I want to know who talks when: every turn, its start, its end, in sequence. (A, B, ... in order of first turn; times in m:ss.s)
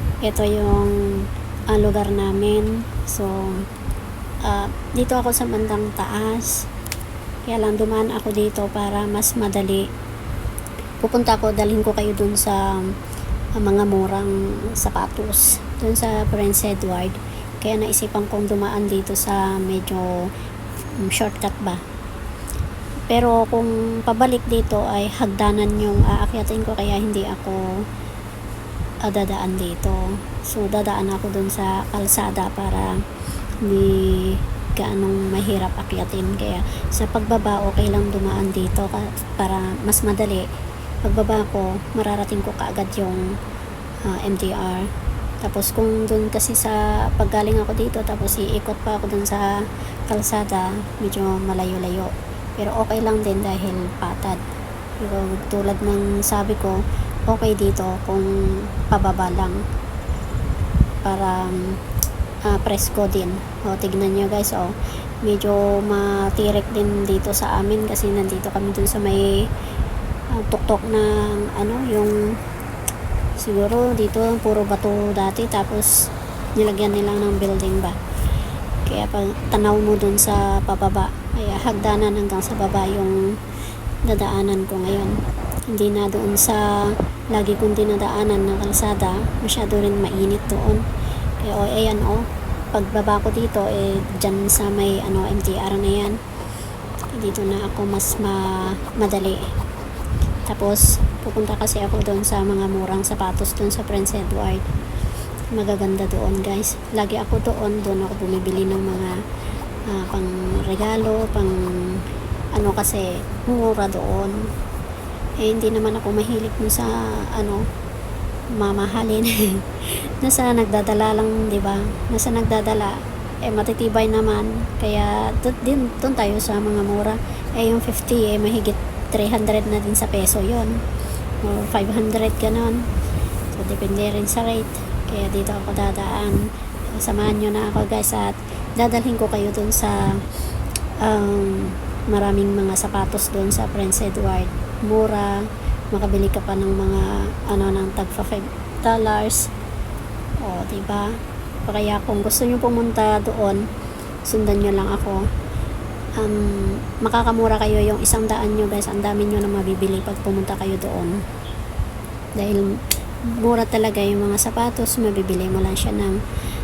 0:00.2-0:03.6 A
0:04.4-0:06.7 A
0:07.5-0:09.9 A
0:11.0-0:13.0 A
0:13.6-0:20.3 A
0:20.9-0:21.8 A
0:23.1-0:27.8 A
0:29.0-0:33.0 A
0:33.6-0:40.5 A
0:41.0-0:43.4 A
0:44.0-0:44.9 A
0:45.4-0:54.4 A
0:55.0-0:59.6 A
1:01.0-1:01.8 A
1:02.4-1:09.5 A
1:10.3-1:12.3 A
1:13.4-1:16.0 A
1:16.6-1:18.0 A
1:18.8-1:23.4 A
1:24.0-1:30.8 A
1:31.4-1:36.2 A
1:37.1-1:39.5 A
1:40.5-1:44.7 A
1:45.5-1:49.2 A
1:49.9-1:54.5 A
1:55.4-1:57.6 A
1:58.6-2:10.8 A
2:11.4-2:12.9 A
2:13.5-2:20.2 A
2:21.0-2:29.5 A
2:30.4-2:33.7 A
2:34.2-2:35.3 A
2:36.2-2:41.2 A
2:42.4-2:46.2 A